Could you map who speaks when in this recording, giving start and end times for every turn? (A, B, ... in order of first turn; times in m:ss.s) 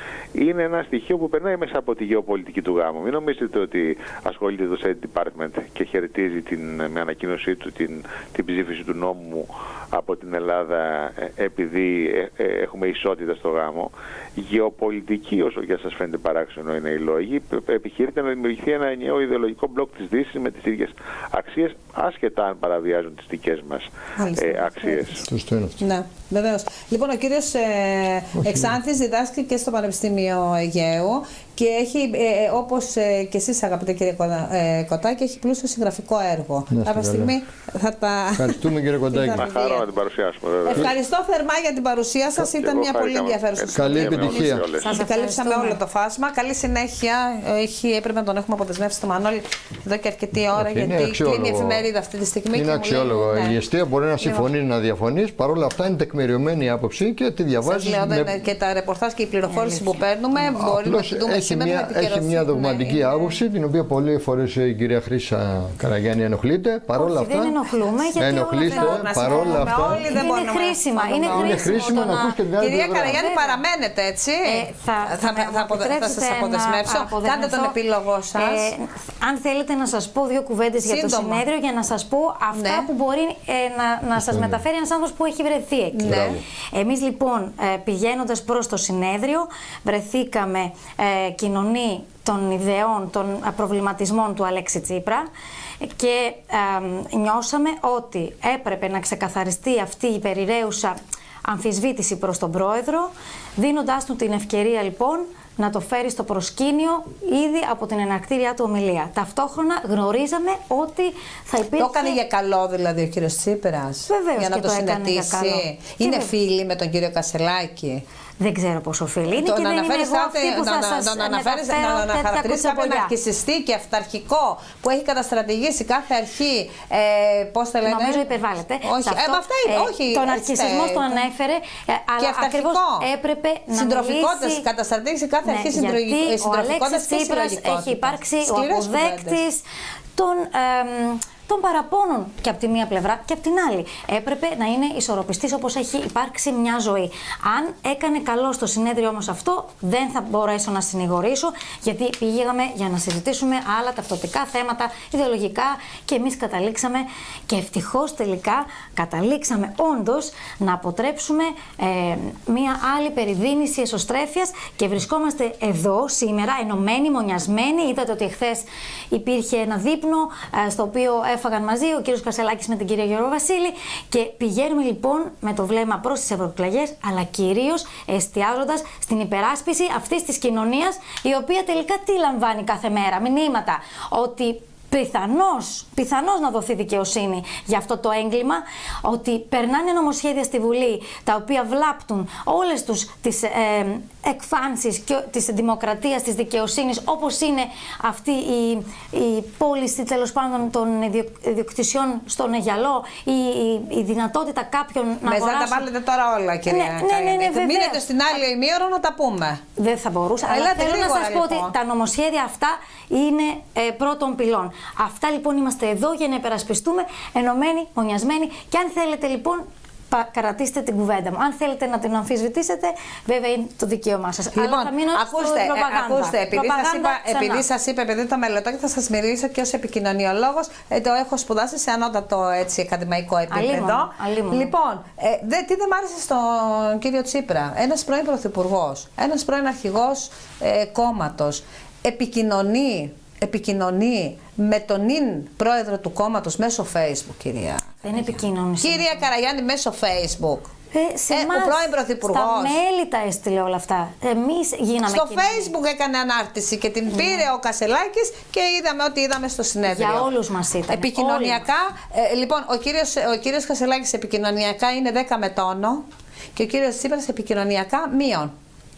0:00.3-0:25.2 A
0:24.2-0:25.1 B
0:25.2-0:25.8 C
0:25.8-0:39.8 B
0:28.4-0:28.8 C
0:36.7-0:37.3 C
0:38.3-0:39.5 C
0:39.3-0:40.9 A
0:40.7-0:53.6 B
0:42.4-0:44.9 A
0:43.7-0:44.6 C
0:44.8-0:45.8 D
0:50.5-0:51.8 C
0:52.5-0:58.3 C
0:54.2-0:54.5 B
0:57.6-1:03.4 B
0:59.5-1:00.0 D
1:00.4-1:10.1 C
1:06.9-1:13.6 D
1:08.6-1:18.7 B
1:11.2-1:13.2 C
1:14.4-1:17.7 D
1:18.4-1:35.2 D
1:20.8-1:21.4 B
1:22.5-1:22.9 B
1:24.3-1:24.6 C
1:25.9-1:26.4 B
1:26.0-1:26.4 C
1:35.8-1:52.2 D
1:51.8-1:58.0 B
1:54.1-1:56.3 D
1:58.4-2:03.1 D
1:59.3-2:08.2 B
2:07.8-2:14.6 D
2:08.8-2:11.2 B
2:12.2-2:13.1 B
2:13.7-2:19.4 B
2:15.4-2:19.6 D
2:20.2-3:25.8 D
3:25.2-3:29.6 B
3:26.6-3:28.0 D
3:29.8-3:47.6 D
3:30.4-3:31.7 B
3:44.5-4:10.7 B
3:53.5-3:54.7 D
4:08.0-4:09.2 D
4:10.9-4:15.7 D
4:11.3-4:12.8 B
4:15.1-4:20.3 B
4:17.1-4:17.4 D
4:19.9-4:21.6 D
4:20.9-4:26.0 B
4:26.5-4:28.5 B